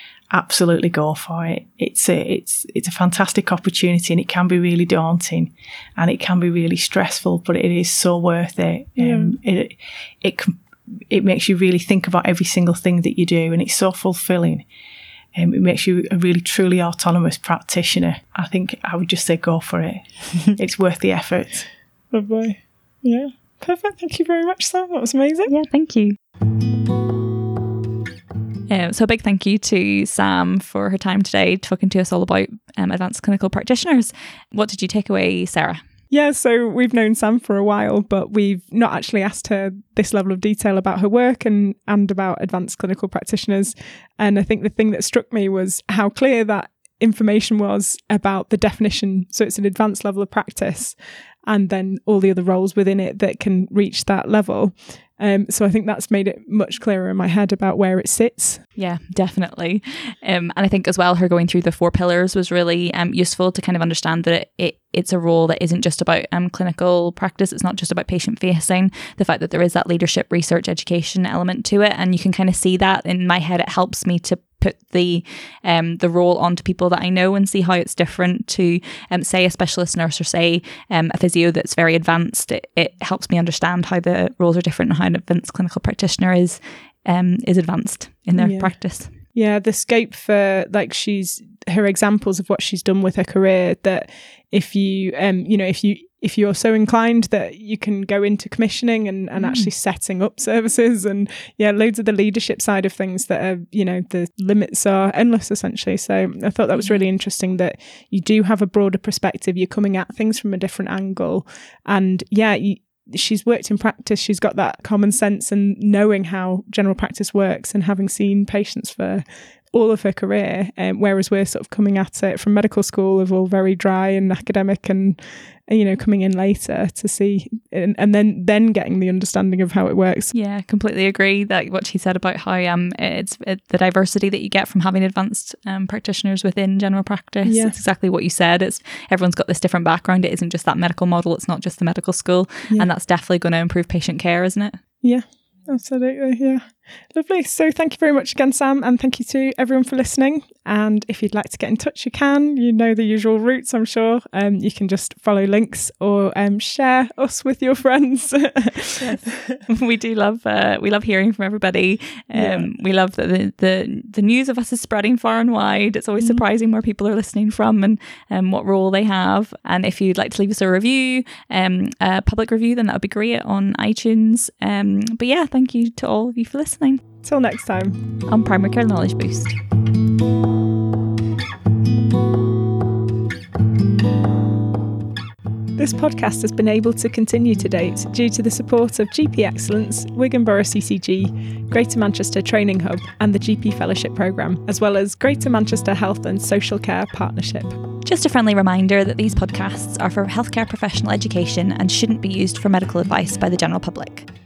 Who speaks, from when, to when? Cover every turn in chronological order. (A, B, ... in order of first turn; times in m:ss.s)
0:00.3-0:14.7 A
0:09.0-0:09.4 B
0:15.4-0:21.7 A
0:22.1-0:25.5 B
0:25.5-0:26.2 C
0:28.7-0:35.8 C
0:36.1-0:58.7 B
0:58.8-1:29.2 C
1:28.4-2:10.3 B
1:39.4-1:39.7 C
1:46.8-1:47.0 C
2:10.3-2:24.8 C
2:17.4-2:17.8 B
2:25.0-2:39.6 B
2:39.0-2:57.0 C
2:42.4-2:42.7 B
2:46.2-2:46.4 B
2:57.2-2:58.0 B
2:58.3-2:59.6 C
3:05.8-3:17.8 B
3:18.0-3:24.3 C